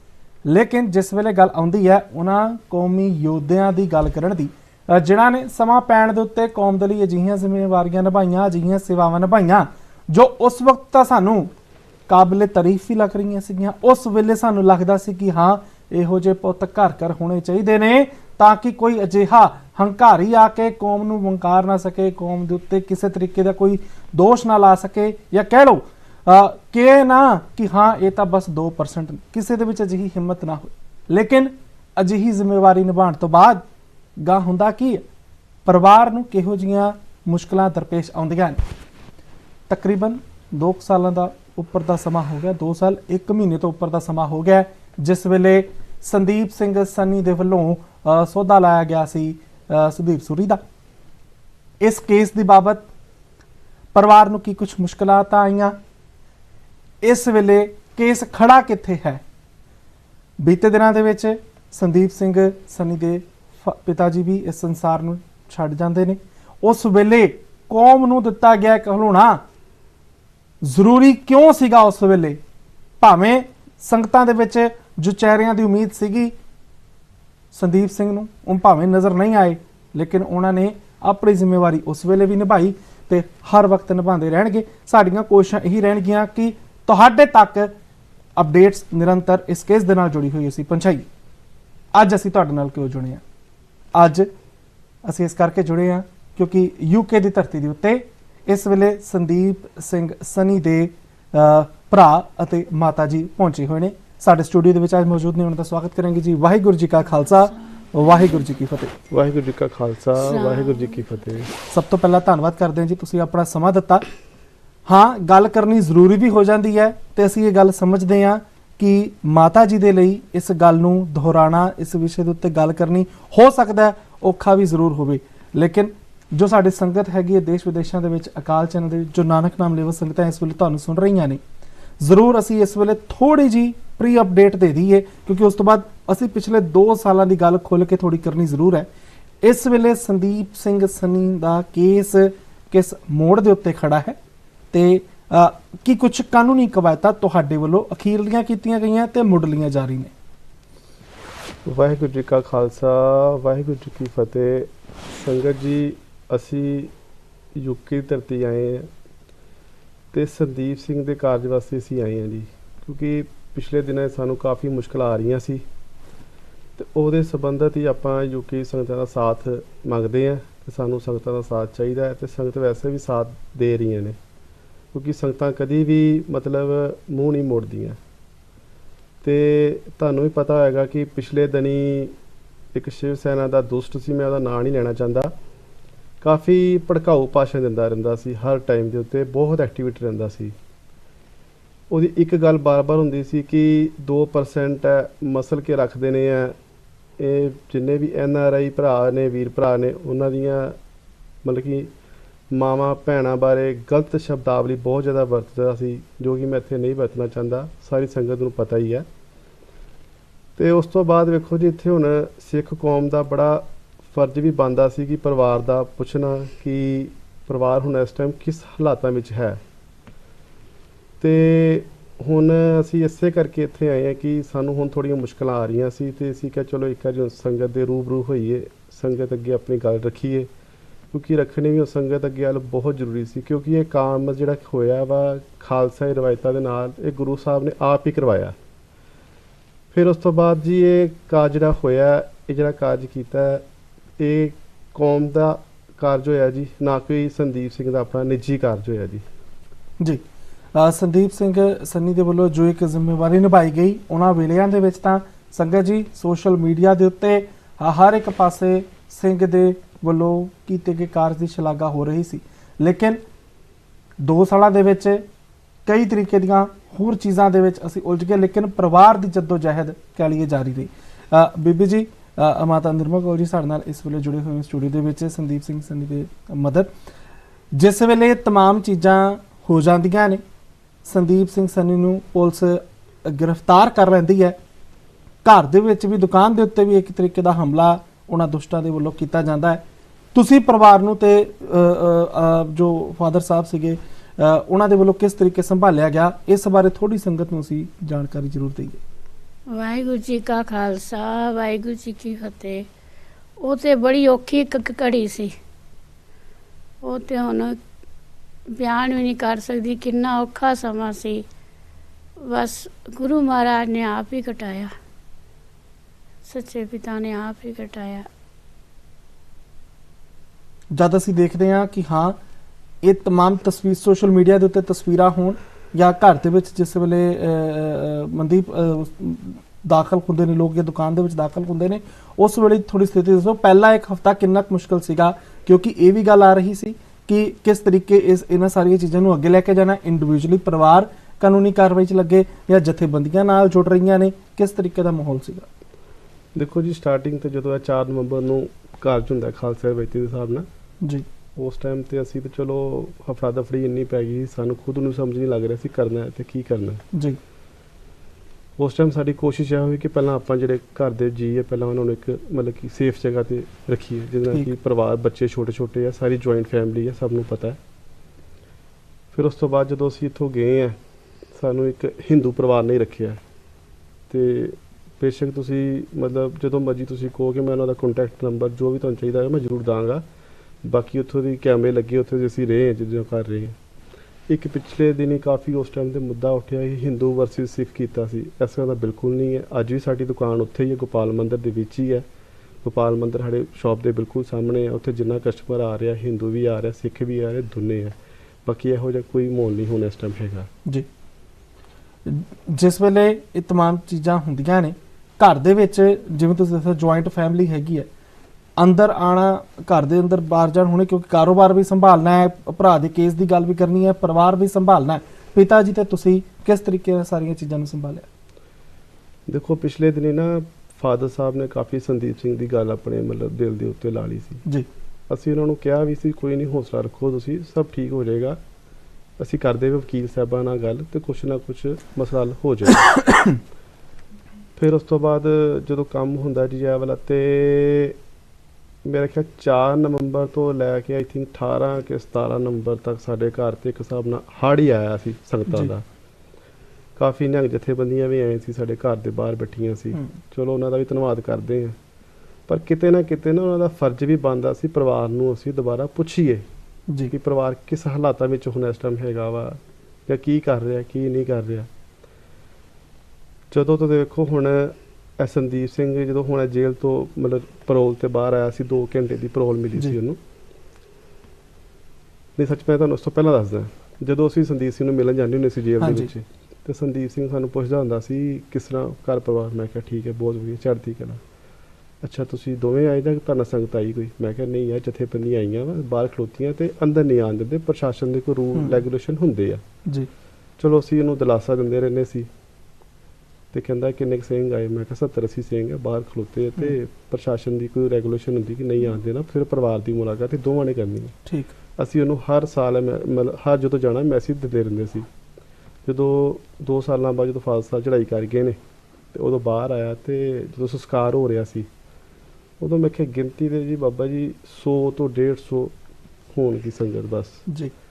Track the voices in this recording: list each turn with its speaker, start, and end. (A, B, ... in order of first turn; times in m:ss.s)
0:00.5-0:11.5 A
0:12.1-0:33.6 A
0:34.2-0:35.0 A
0:35.7-0:38.6 A
0:39.7-0:50.6 A
0:51.8-0:52.9 A
0:53.9-0:55.8 A
0:57.0-0:59.2 A
1:00.4-1:09.4 A
1:10.6-1:12.4 A
1:13.0-1:16.3 A
1:17.5-1:27.7 A
1:28.4-1:31.1 A
1:32.0-1:33.2 A
1:34.0-1:34.3 A
1:35.0-1:48.9 A
1:49.1-1:51.5 B
1:50.3-1:50.8 C
1:51.7-1:54.0 A
1:54.9-2:11.4 A
2:12.0-2:18.9 A
2:19.4-2:24.2 A
2:24.7-2:30.1 A
2:31.6-2:36.9 B
2:37.6-2:38.9 B
2:40.1-2:45.6 B
2:46.8-2:54.2 B
2:54.9-2:58.0 B
2:59.2-3:02.1 B
3:02.7-3:05.3 B
3:06.2-3:10.6 B
3:11.9-3:16.6 B
3:17.2-3:20.8 B
3:21.4-3:21.9 B
3:22.5-3:29.1 B
3:30.6-3:39.6 B
3:41.2-3:50.5 B
3:51.1-3:58.6 B
3:59.9-4:03.6 B
4:04.2-4:09.2 B
4:10.8-4:23.2 A
4:24.2-4:25.2 A
4:25.9-4:36.9 A
4:37.7-4:40.4 A
4:41.0-4:44.6 A
4:45.4-4:49.8 A
4:50.3-4:59.0 A
4:59.7-5:02.9 C
5:03.6-5:05.6 C
5:07.0-5:07.8 C
5:08.7-5:11.4 C
5:12.4-5:14.9 C
5:16.4-5:18.3 C
5:20.9-5:22.4 A
5:23.0-5:45.7 A
5:46.6-5:50.7 B
5:51.6-5:57.0 B
5:57.1-5:57.4 A
5:58.8-6:07.8 B
6:09.3-6:11.0 B
6:11.5-6:13.4 B
6:14.3-6:20.2 B
6:20.8-6:23.8 B
6:24.5-6:32.3 B
6:32.8-6:40.7 B
6:42.3-6:48.1 A
6:48.8-6:58.3 A
6:59.5-7:04.6 B
7:05.3-7:08.6 B
7:09.4-7:13.1 B
7:13.0-7:13.6 A
7:14.8-7:18.2 B
7:19.0-7:26.0 B
7:27.2-7:32.0 B
7:32.7-7:36.7 B
7:37.3-7:41.9 B
7:43.7-7:50.4 B
7:52.6-8:01.4 B
7:56.0-7:56.3 A
8:02.2-8:09.8 B
8:08.8-8:09.0 A
8:10.8-8:12.5 B
8:13.7-8:21.4 B
8:21.5-8:21.7 A
8:22.0-8:25.3 B
8:26.1-8:28.8 B
8:29.3-8:31.9 B
8:32.8-8:35.9 B
8:36.5-8:37.6 B
8:37.7-8:37.9 A